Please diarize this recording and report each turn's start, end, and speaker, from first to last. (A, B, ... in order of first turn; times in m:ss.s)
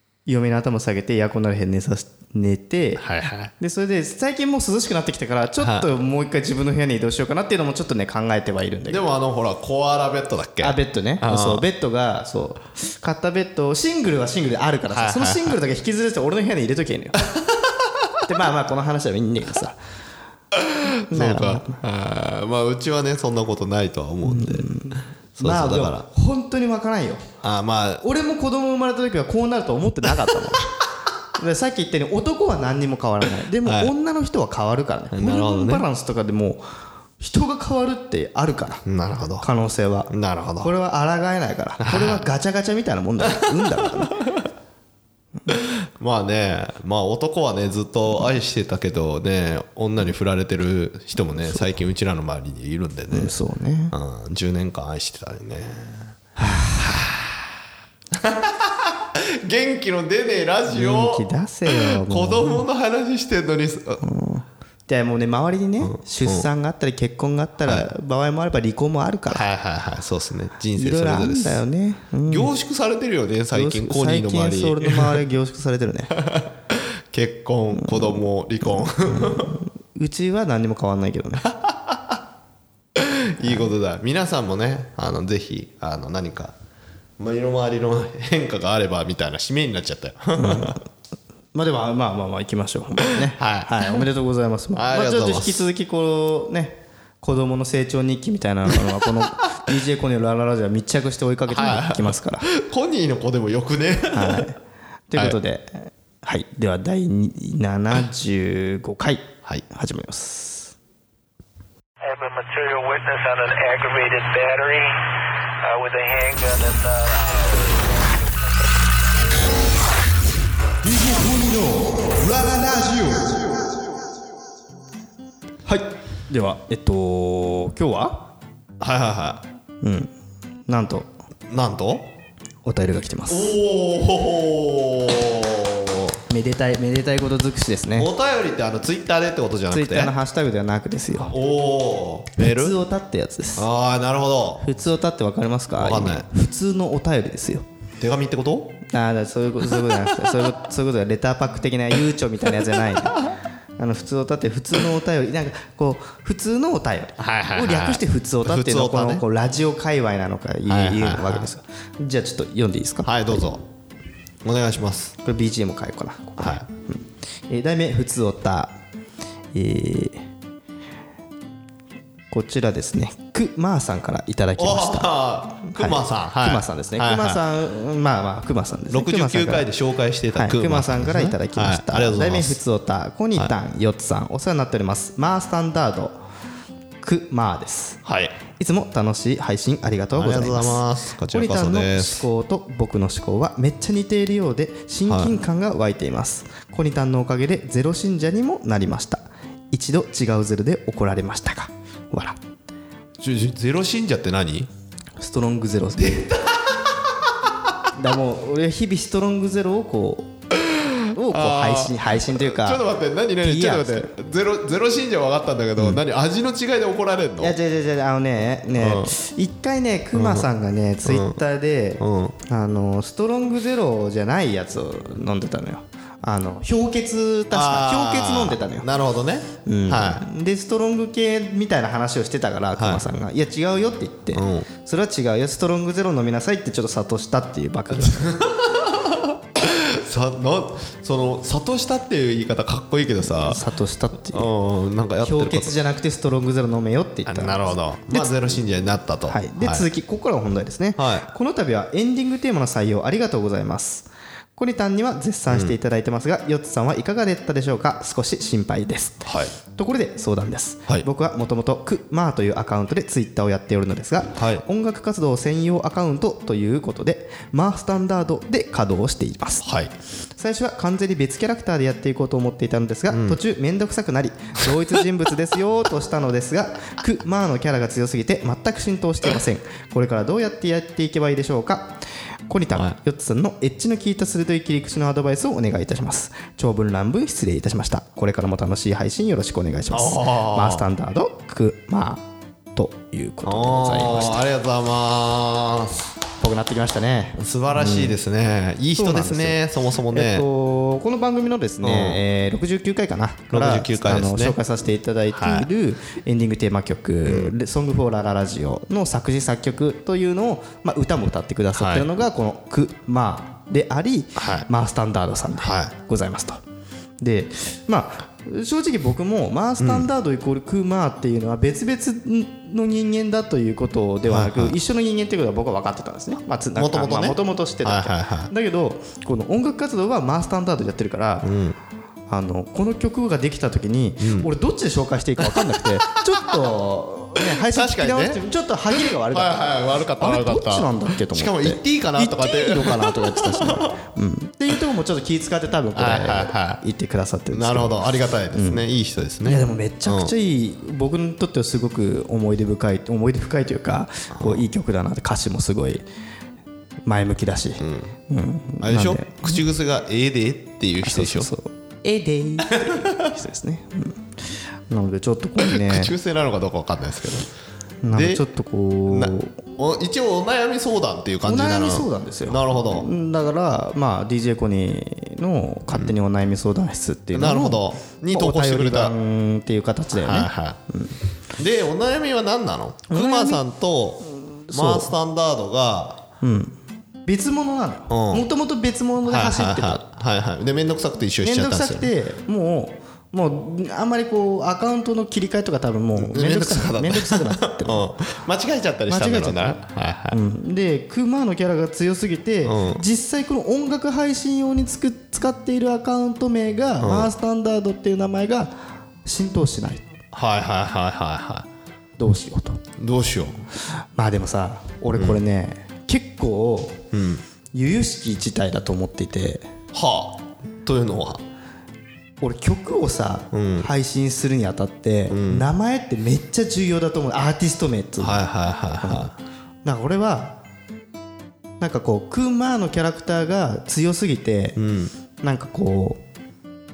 0:00.3-0:03.0 A
0:03.0-0:03.5 B
0:03.6-0:09.0 A
0:05.6-0:05.9 B
0:08.9-0:11.6 B
0:10.6-0:17.2 A
0:14.9-0:15.6 B
0:17.2-0:18.2 B
0:18.3-0:19.8 A
0:20.5-0:26.1 B
0:21.1-0:21.8 A
0:24.2-0:27.3 A
0:27.4-0:28.0 B
0:28.0-0:30.7 A
0:30.2-0:30.6 B
0:31.4-0:36.6 A
0:33.6-0:33.9 B
0:35.1-0:35.9 B
0:37.2-0:38.9 A
0:38.9-0:39.5 B
0:39.4-0:44.2 A
0:40.1-0:40.7 B
0:41.8-0:42.2 B
0:43.2-0:44.3 B
0:45.5-0:53.4 B
0:53.1-0:54.0 A
0:53.9-0:57.6 B
0:56.4-0:56.9 A
0:58.1-1:04.0 B
1:00.7-1:02.6 A
1:04.0-1:09.4 A
1:05.8-1:06.5 B
1:09.3-1:11.6 B
1:10.8-1:12.5 A
1:12.3-1:15.2 B
1:13.5-1:16.1 A
1:16.1-1:19.6 B
1:17.8-1:18.2 A
1:19.0-1:21.5 A
1:21.5-1:22.2 B
1:23.0-1:26.6 B
1:23.4-1:23.7 A
1:27.2-1:30.8 B
1:30.4-1:30.8 A
1:31.5-1:42.5 A
1:33.3-1:34.0 B
1:34.7-1:35.7 B
1:41.5-1:44.5 B
1:44.1-1:44.6 A
1:45.1-1:50.8 A
1:52.0-1:55.1 C
1:55.6-1:58.1 C
2:00.8-2:03.5 A
2:05.7-2:08.3 A
2:08.8-2:09.4 B
2:09.8-2:10.1 A
2:10.7-2:11.1 A
2:11.5-2:12.1 B
2:12.6-2:13.6 A
2:13.3-2:16.2 B
2:16.3-2:18.1 A
2:18.0-2:20.1 B
2:19.7-2:21.4 A
2:21.2-2:22.8 B
2:22.4-2:23.7 A
2:23.6-2:24.7 B
2:24.6-2:27.7 A
2:25.8-2:26.3 B
2:28.0-2:28.8 B
2:28.9-2:33.2 A
2:29.7-2:30.4 B
2:33.8-2:43.4 A
2:37.2-2:39.2 B
2:40.7-2:41.5 B
2:43.0-2:43.6 B
2:44.4-2:45.2 B
2:45.2-2:48.8 A
2:46.4-2:46.6 B
2:49.5-2:50.3 A
2:52.3-2:59.7 A
2:54.6-2:57.4 B
2:58.9-3:02.6 B
3:00.3-3:06.2 A
3:07.0-3:08.0 A
3:08.0-3:08.4 B
3:08.5-3:22.4 A
3:10.2-3:12.3 B
3:15.1-3:15.4 B
3:23.2-3:24.7 B
3:25.2-3:26.4 A
3:26.0-3:27.7 B
3:27.9-3:30.3 A
3:30.6-3:37.6 B
3:31.1-3:32.8 A
3:33.4-3:34.1 A
3:37.4-3:48.9 A
3:38.8-3:39.1 B
3:40.1-3:40.5 B
3:41.0-3:41.4 B
3:42.0-3:42.4 B
3:47.5-3:50.3 B
3:49.6-3:58.4 A
3:52.8-3:53.0 B
3:54.3-3:54.7 B
3:57.9-4:03.6 B
4:03.3-4:04.5 A
4:04.3-4:05.8 B
4:05.2-4:08.4 A
4:07.3-4:09.9 B
4:09.3-4:29.7 A
4:11.0-4:11.3 B
4:15.5-4:15.8 B
4:19.2-4:19.5 B
4:24.4-4:24.6 B
4:29.6-4:29.9 B
4:30.4-4:54.4 A
4:33.1-4:33.4 B
4:49.9-4:50.9 B
4:53.4-4:56.1 B
4:56.4-4:58.2 A
4:57.4-5:00.5 B
4:59.0-4:59.6 A
5:00.1-5:16.6 A
5:01.8-5:02.2 B
5:03.5-5:04.6 B
5:05.3-5:05.7 B
5:07.3-5:07.5 B
5:11.8-5:12.1 B
5:14.4-5:14.7 B
5:15.6-5:15.9 B
5:17.2-5:31.5 A
5:19.8-5:20.1 B
5:24.3-5:24.8 B
5:26.8-5:28.5 B
5:31.4-5:31.8 B
5:32.3-5:39.7 A
5:34.2-5:34.5 B
5:35.4-5:35.9 B
5:37.4-5:38.4 B
5:38.9-5:44.0 B
5:40.2-5:48.0 A
5:46.0-5:46.8 B
5:47.5-5:50.3 B
5:48.5-5:48.8 A
5:49.4-5:56.0 A
5:54.4-5:54.6 B
5:57.1-5:59.6 A
5:57.8-5:58.1 B
5:58.8-6:01.5 B
6:01.0-6:04.2 A
6:02.7-6:03.3 B
6:04.9-6:06.1 A
6:05.6-6:07.5 B
6:08.0-6:09.6 A
6:08.1-6:08.4 B
6:09.1-6:13.1 B
6:11.4-6:21.2 A
6:17.3-6:19.1 B
6:20.1-6:20.8 B
6:21.6-6:26.2 B
6:23.1-6:23.6 A
6:24.3-6:25.1 A
6:26.4-6:30.1 A
6:28.1-6:28.5 B
6:29.2-6:32.1 B
6:31.4-6:38.1 A
6:36.2-6:40.4 B
6:39.1-6:39.8 A
6:40.3-6:48.7 A
6:42.6-6:43.0 B
6:47.0-6:47.3 B
6:49.2-6:50.1 A
6:50.3-6:51.7 B
6:52.2-6:52.8 A
6:53.0-6:53.6 B
6:54.0-6:57.1 A
6:55.1-6:55.4 B
6:57.1-6:57.4 B
6:57.7-6:59.7 A
6:59.9-7:01.4 B
7:02.4-7:08.4 A
7:03.5-7:03.9 B
7:05.3-7:05.7 B
7:08.2-7:09.4 B
7:09.0-7:09.3 A
7:09.8-7:10.6 A
7:11.8-7:14.8 A
7:14.8-7:15.1 B
7:15.4-7:16.2 A